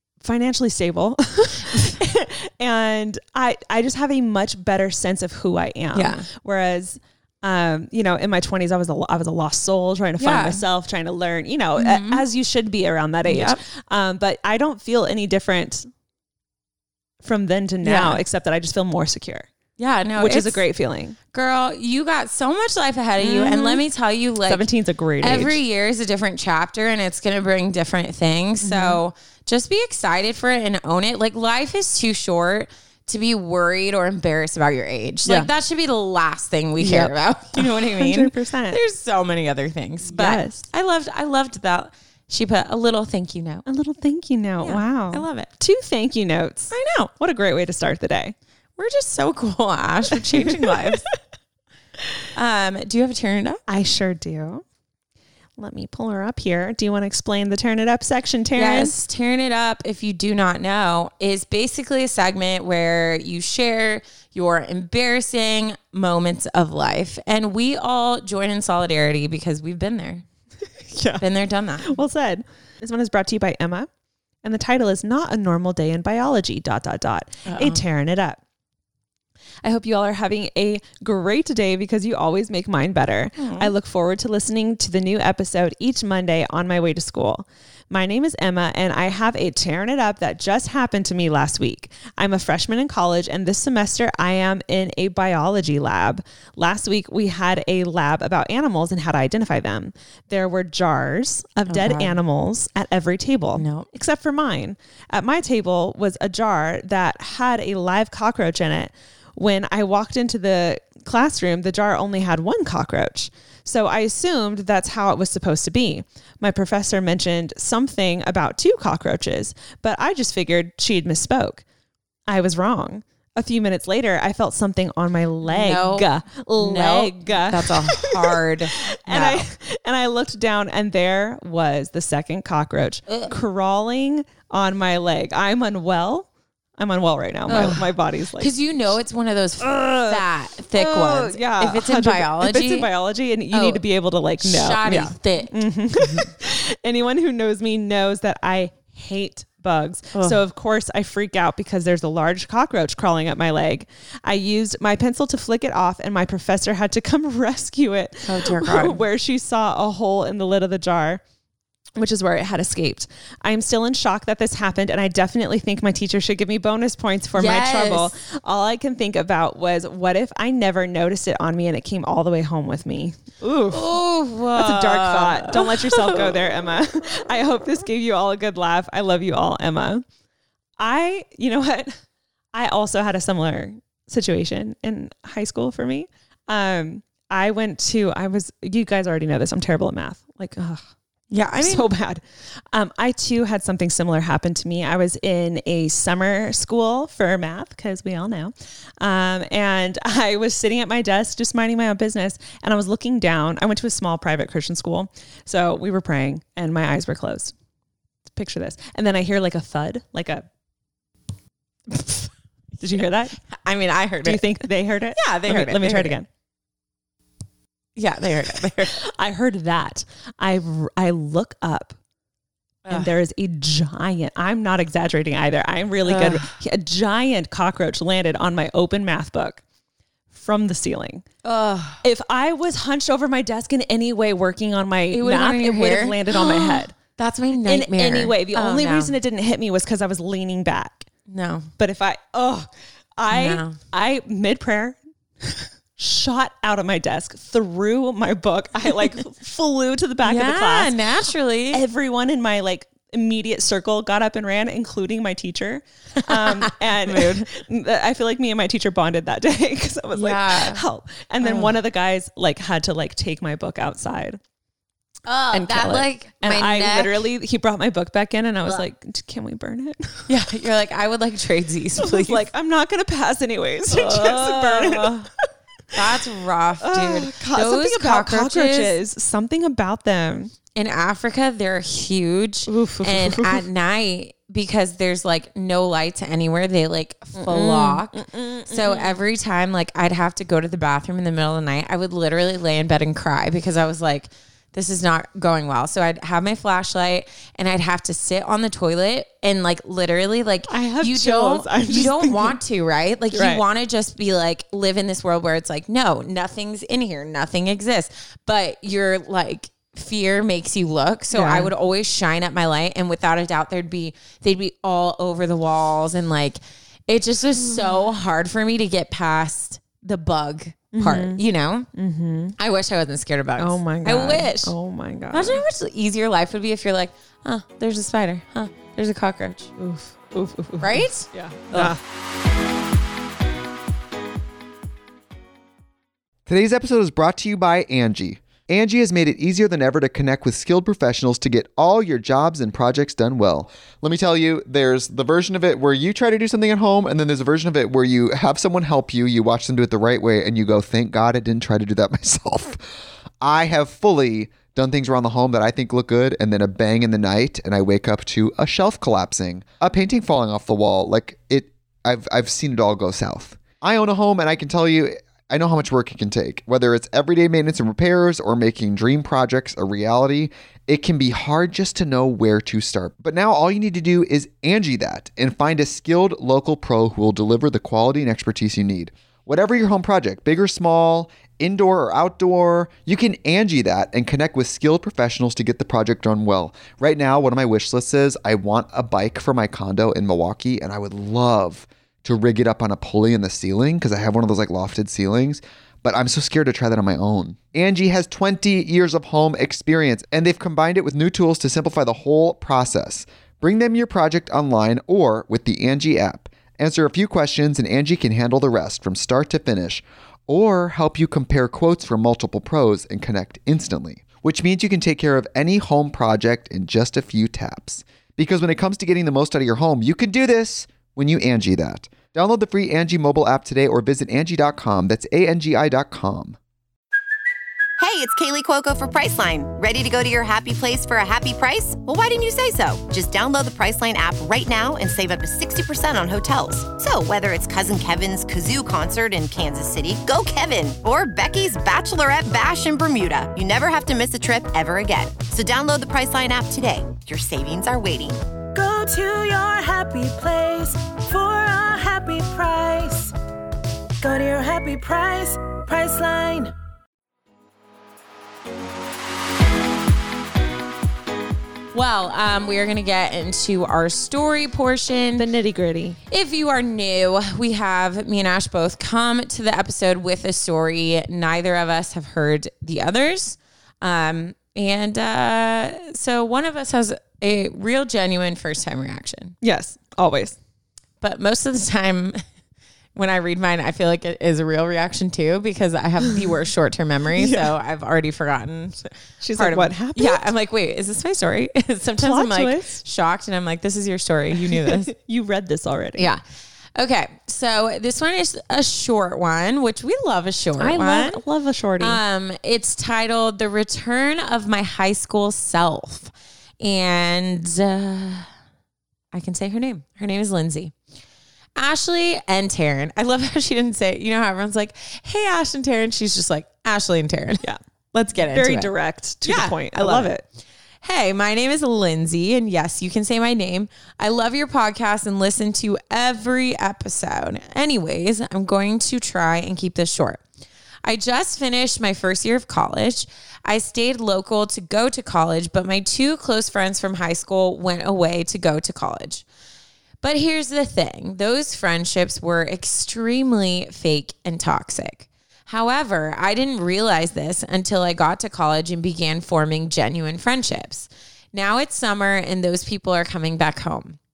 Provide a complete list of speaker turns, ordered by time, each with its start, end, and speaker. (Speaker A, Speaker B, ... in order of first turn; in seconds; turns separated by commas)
Speaker A: 0.2-15.9, Speaker B: 5.9-6.2, Speaker B: 10.2-10.6, Speaker B: 11.8-12.2, Speaker B: 13.2-13.6, Speaker A: 17.2-19.5, Speaker B: 17.8-18.2, Speaker B: 19.8-20.6, Speaker A: 20.2-21.1, Speaker B: 21.3-24.7, Speaker A: 23.2-23.8, Speaker A: 24.4-25.6, Speaker B: 25.2-43.6, Speaker A: 28.6-29.0, Speaker A: 36.8-38.8, Speaker A: 40.1-40.7, Speaker A: 43.6-48.3, Speaker B: 44.6-45.5, Speaker B: 46.7-47.1, Speaker B: 48.8-51.0, Speaker A: 50.3-51.0, Speaker B: 52.3-53.6, Speaker A: 53.7-54.6, Speaker A: 55.6-58.9, Speaker B: 58.5-70.2, Speaker A: 70.9-71.2, Speaker B: 71.2-72.0, Speaker A: 71.8-73.9, Speaker A: 74.4-78.4, Speaker B: 77.5-77.8, Speaker A: 79.6-121.6, Speaker B: 83.4-83.7, Speaker B: 101.7-102.2, Speaker B: 103.5-103.9, Speaker A: 122.3-138.5, Speaker B: 125.4-126.1, Speaker B: 126.6-129.4, Speaker B: 137.5-142.9, Speaker A: 139.6-161.2, Speaker B: 143.5-143.8, Speaker B: 144.4-145.5, Speaker B: 158.2-159.0, Speaker A: 162.0-173.9, Speaker B: 167.3-168.1, Speaker B: 173.4-176.3, Speaker A: 174.5-180.0, Speaker A: 180.8-182.0, Speaker A: 182.5-190.9, Speaker B: 191.3-191.9, Speaker A: 191.6-207.5, Speaker A: 208.3-210.4, Speaker B: 211.9-212.3, Speaker A: 212.8-213.4, Speaker B: 213.5-214.4, Speaker A: 214.2-216.3, Speaker B: 215.2-216.2, Speaker B: 217.9-219.0, Speaker A: 218.9-221.9, Speaker B: 222.8-223.1, Speaker A: 222.9-229.6, Speaker B: 226.0-226.5, Speaker A: 230.3-231.2, Speaker B: 231.4-232.0, Speaker A: 232.0-237.0, Speaker B: 235.1-239.1, Speaker A: 237.6-241.1, Speaker B: 241.3-241.7, Speaker A: 241.8-251.0, Speaker B: 243.3-243.8, Speaker B: 250.2-251.8, Speaker A: 251.7-264.4, Speaker B: 256.2-257.5, Speaker B: 260.1-260.8, Speaker B: 261.4-261.7, Speaker B: 265.3-267.1, Speaker A: 265.5-270.3, Speaker B: 270.3-272.4, Speaker A: 272.0-275.3, Speaker B: 273.9-275.2, Speaker B: 275.9-278.9, Speaker A: 276.8-280.5, Speaker B: 280.8-288.1, Speaker A: 282.7-283.6, Speaker A: 287.4-289.1, Speaker B: 288.7-321.9, Speaker A: 300.7-302.6, Speaker A: 303.3-303.6, Speaker A: 311.3-311.7, Speaker A: 317.7-318.0, Speaker A: 320.9-321.4, Speaker A: 321.9-322.6, Speaker B: 322.6-324.7, Speaker A: 323.6-325.6, Speaker B: 325.3-329.7, Speaker A: 329.8-332.0, Speaker B: 330.8-331.9, Speaker C: 336.5-352.8, Speaker C: 353.4-426.6, Speaker D: 428.0-448.4, Speaker E: 448.7-453.3, Speaker E: 454.2-456.7, Speaker B: 461.9-465.4, Speaker A: 465.4-466.2, Speaker B: 466.3-479.5, Speaker A: 479.6-480.6, Speaker B: 481.2-482.4, Speaker B: 483.1-495.1, Speaker A: 487.4-487.7, Speaker A: 489.4-490.4, Speaker A: 492.2-493.0, Speaker A: 494.6-496.3, Speaker B: 496.2-496.4, Speaker B: 496.9-501.4, Speaker A: 500.8-502.2, Speaker B: 502.0-508.5, Speaker B: 509.3-510.9, Speaker B: 511.8-518.9, Speaker A: 518.3-520.4, Speaker B: 519.4-520.3, Speaker B: 521.0-530.4, Speaker B: 531.0-539.4, Speaker B: 540.2-554.2